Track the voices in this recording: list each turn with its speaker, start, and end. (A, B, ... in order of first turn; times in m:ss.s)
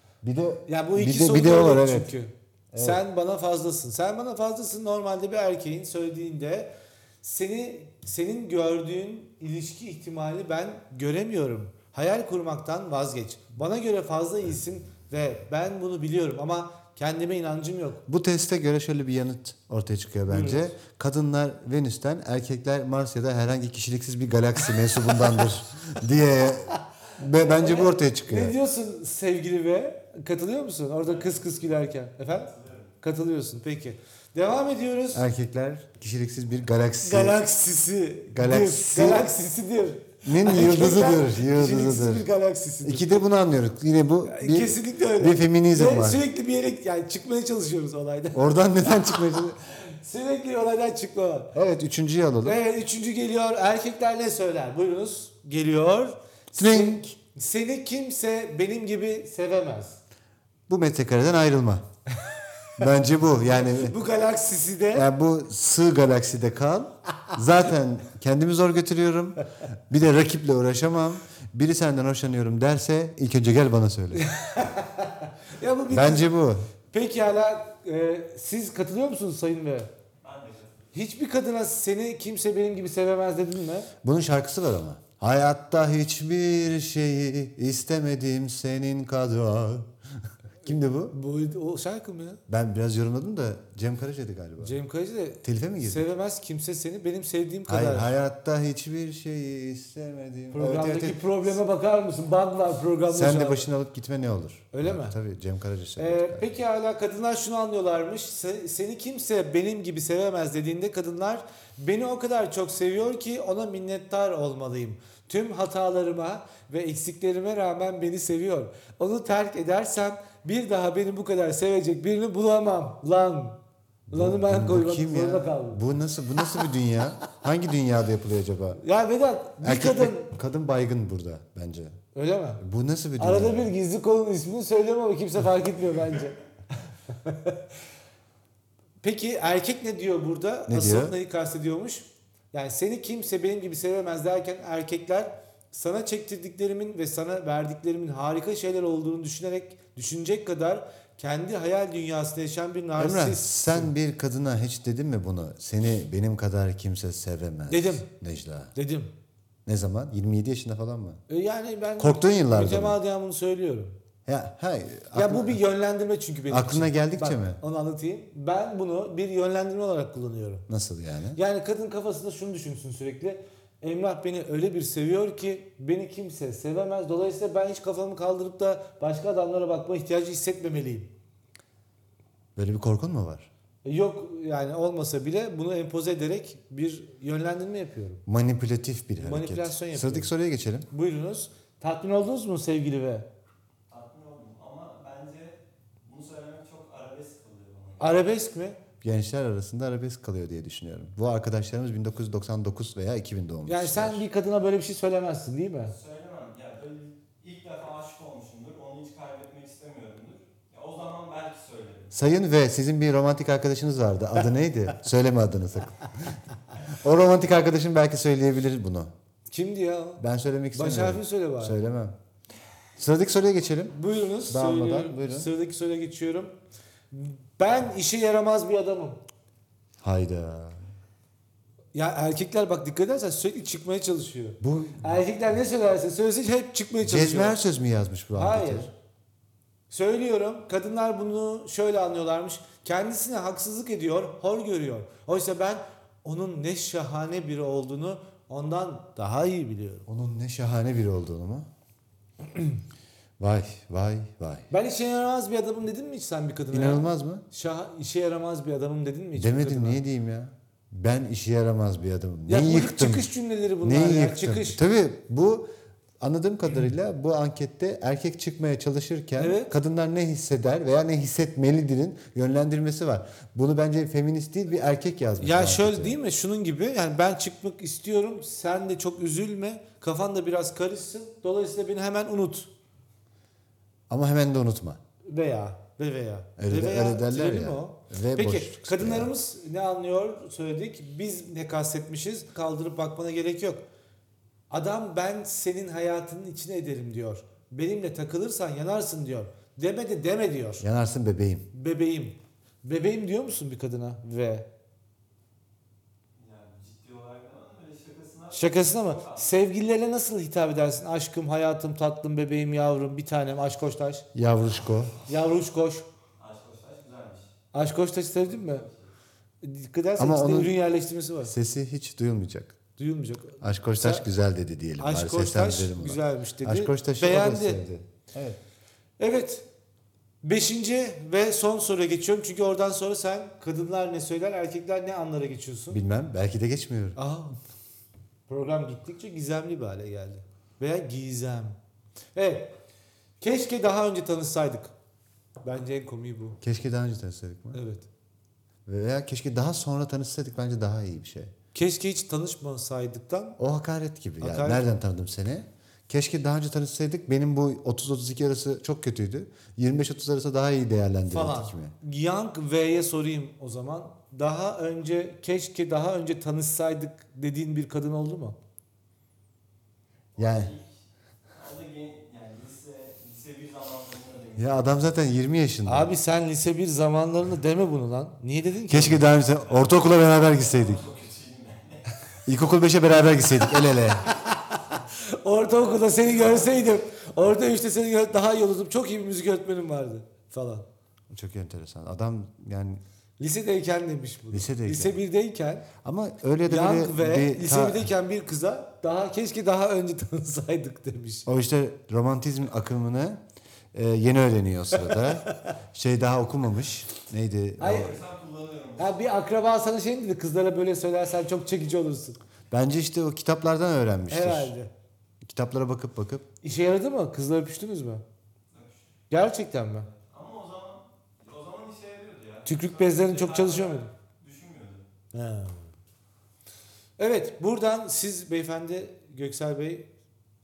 0:00.2-0:02.1 A
0:00.7-0:06.7 B
0:02.7-0:03.0 A
0:07.2-0:18.0 B
0:18.1-0:28.6 A
0:20.3-0:20.7 B
0:27.3-0:35.2 B
0:31.1-0:31.5 C
0:32.5-0:32.9 C
0:35.1-0:37.4 A
0:37.0-0:43.2 B
0:38.3-0:39.3 A
0:40.2-0:42.3 A
0:42.8-0:46.2 A
0:44.2-0:51.6 B
0:48.3-0:49.6 A
0:51.5-0:52.6 A
0:52.4-1:00.0 B
0:56.6-0:57.1 A
1:00.7-1:01.8 A
1:02.8-1:04.0 A
1:03.4-1:05.1 B
1:04.9-1:14.3 A
1:14.1-1:16.3 B
1:15.9-1:16.6 A
1:16.9-1:19.9 B
1:20.2-1:20.9 C
1:20.9-1:23.9 B
1:24.0-1:29.9 A
1:30.6-1:31.2 A
1:31.1-1:32.4 B
1:32.5-1:34.8 A
1:34.6-1:38.1 B
1:35.4-1:36.1 A
1:37.7-1:41.5 A
1:40.5-1:43.7 B
1:43.1-1:46.5 A
1:44.7-1:45.2 B
1:46.0-2:03.6 B
2:04.1-2:08.8 A
2:04.1-2:05.8 B
2:08.8-2:10.3 B
2:09.6-2:12.0 A
2:12.1-2:12.6 B
2:12.6-2:13.7 A
2:13.2-2:16.4 B
2:17.1-2:17.6 B
2:19.0-2:33.9 B
2:20.7-2:21.2 A
2:33.0-2:38.7 A
2:37.7-2:38.1 B
2:38.8-2:39.1 B
2:39.7-2:41.2 A
2:41.3-2:44.0 B
2:42.0-2:43.0 A
2:44.3-2:45.6 A
2:45.1-2:50.7 B
2:46.5-2:47.6 A
2:50.7-2:51.4 A
2:51.4-3:01.1 B
3:02.6-3:03.5 A
3:03.8-3:08.2 B
3:08.3-3:10.9 A
3:09.2-3:10.3 B
3:10.9-3:13.3 B
3:13.9-3:18.3 C
3:18.0-3:18.8 B
3:19.0-3:24.2 A
3:23.7-3:26.0 B
3:25.9-3:32.1 C
3:32.1-3:39.1 A
3:39.5-3:40.2 B
3:40.2-3:42.2 A
3:40.7-3:41.8 B
3:43.0-3:44.0 A
3:43.9-3:46.5 B
3:44.5-3:45.5 A
3:47.1-3:49.2 B
3:50.0-3:50.8 A
3:51.9-3:57.6 B
3:54.6-3:55.2 A
3:57.0-3:58.9 A
3:58.3-3:58.9 B
3:59.9-4:10.1 B
4:10.1-4:11.7 A
4:13.4-4:14.7 A
4:14.7-4:20.0 B
4:16.7-4:17.4 A
4:19.4-4:23.3 A
4:22.5-4:24.8 B
4:23.8-4:25.7 A
4:26.2-4:36.2 A
4:29.4-4:29.7 B
4:35.4-4:42.7 B
4:44.1-4:45.0 A
4:45.3-4:53.8 B
4:46.6-4:49.3 A
4:54.7-5:00.8 B
5:00.8-5:01.7 A
5:01.7-5:04.7 B
5:06.4-5:09.5 C
5:08.5-5:14.3 B
5:14.3-5:15.2 A
5:15.3-5:16.1 B
5:16.4-5:17.5 C
5:17.7-5:18.9 B
5:18.5-5:19.1 C
5:19.6-5:21.5 B
5:20.2-5:20.8 A
5:21.4-5:22.8 A
5:23.0-5:24.3 B
5:23.6-5:28.6 A
5:25.0-5:27.9 B
5:29.2-5:29.7 B
5:30.4-5:36.0 B
5:35.9-5:37.2 A
5:37.2-5:37.6 B
5:38.5-5:41.8 B
5:42.4-5:42.7 B
5:43.4-5:44.9 B
5:45.6-5:46.6 B
5:46.6-5:47.8 A
5:47.7-5:48.1 B
5:48.9-5:51.5 A
5:51.7-5:53.6 B
5:53.6-6:01.9 A
5:54.4-5:54.8 B
6:01.3-6:08.6 B
6:10.4-6:11.0 C
6:10.4-6:10.7 A
6:11.5-6:15.2 C
6:14.6-6:16.1 A
6:15.9-6:19.3 B
6:18.9-6:21.1 A
6:19.6-6:22.1 C
6:22.5-6:24.3 A
6:24.2-6:30.9 B
6:31.3-6:33.0 A
6:33.4-6:35.9 B
6:34.5-6:35.2 A
6:36.0-6:38.1 A
6:36.7-6:41.5 B
6:41.5-6:43.4 A
6:43.9-6:48.2 A
6:45.0-6:45.7 B
6:47.8-6:48.2 B
6:47.8-6:49.2 C
6:49.0-6:52.4 B
6:52.7-6:54.7 A
6:54.3-6:54.9 B
6:55.4-6:56.5 A
6:56.6-6:58.2 B
6:58.7-6:59.1 C
6:59.3-7:00.1 B
7:00.1-7:05.1 C
7:02.7-7:04.1 B
7:05.3-7:05.9 B
7:07.2-7:10.1 B